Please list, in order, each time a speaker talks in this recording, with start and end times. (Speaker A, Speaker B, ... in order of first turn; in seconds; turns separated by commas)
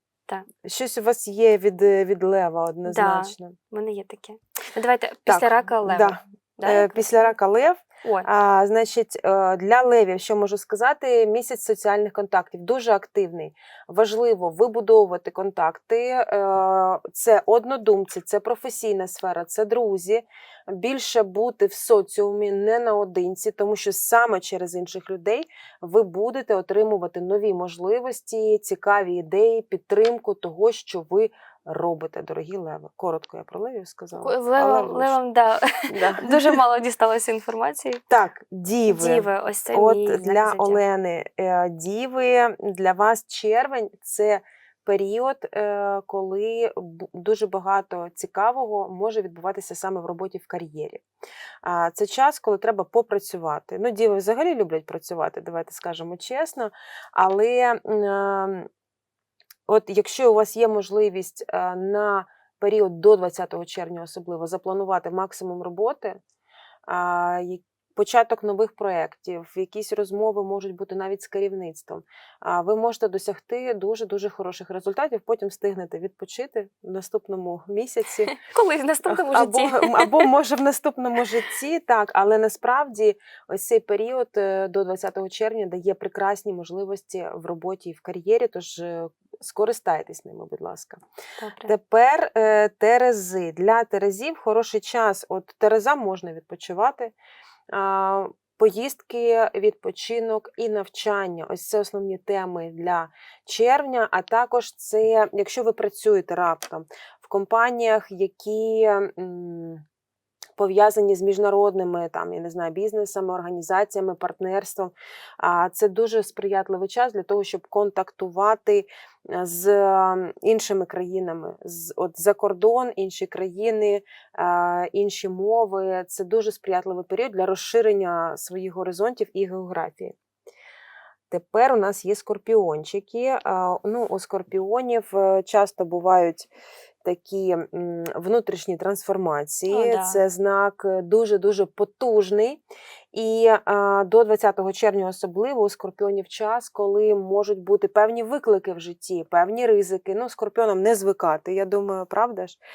Speaker A: 0.6-3.5, Speaker B: 2.8-7.3, Speaker A: 5.3-35.2, Speaker B: 34.1-38.0, Speaker A: 35.9-36.6, Speaker A: 38.1-51.0, Speaker B: 38.9-40.8, Speaker A: 51.6-58.7, Speaker A: 59.7-66.2, Speaker A: 66.9-78.3, Speaker B: 78.3-80.3, Speaker A: 79.1-91.0, Speaker B: 91.4-91.7, Speaker A: 91.6-97.1, Speaker A: 97.7-109.8, Speaker A: 110.6-130.1, Speaker A: 131.3-136.5, Speaker A: 137.0-142.6, Speaker B: 139.7-140.2, Speaker A: 143.1-152.6